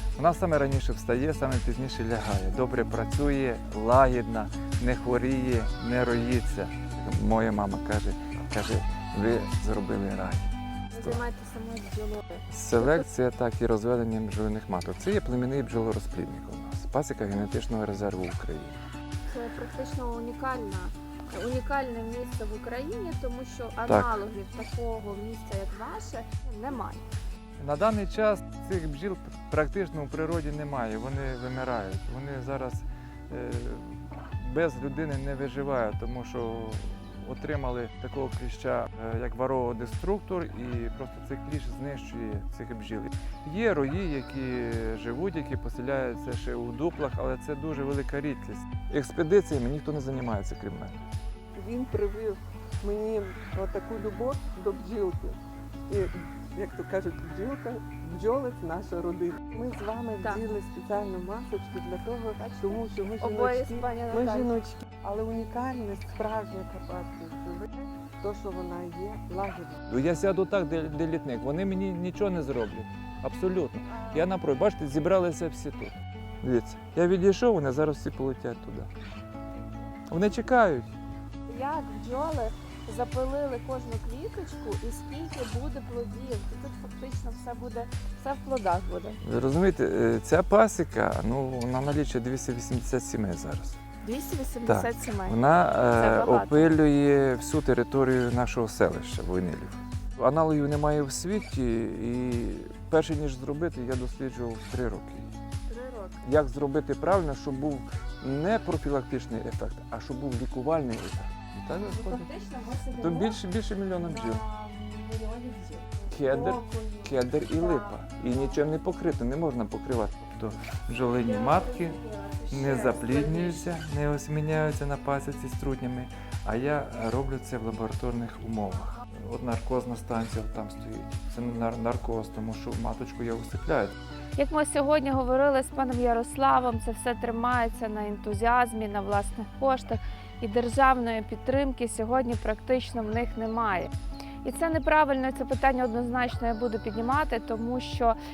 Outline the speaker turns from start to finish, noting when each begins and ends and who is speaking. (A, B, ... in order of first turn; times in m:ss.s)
0:00.2-0:11.2 A
0:10.9-0:13.0 B
0:12.5-0:18.8 A
0:19.3-0:27.0 B
0:23.8-0:24.1 A
0:27.6-0:51.0 A
0:51.6-0:55.4 C
0:55.9-1:09.8 C
1:02.4-1:04.5 B
1:09.9-1:18.9 A
1:13.9-1:14.3 B
1:20.1-1:20.9 A
1:21.5-1:29.2 B
1:29.2-1:33.8 A
1:34.0-1:36.7 B
1:34.6-1:45.3 A
1:45.7-1:46.2 B
1:46.2-1:52.3 A
1:51.9-1:53.4 B
1:53.0-1:54.4 A
1:54.0-1:58.6 B
1:56.1-2:02.0 A
2:01.2-2:03.7 B
2:02.5-2:14.0 A
2:14.4-2:28.2 B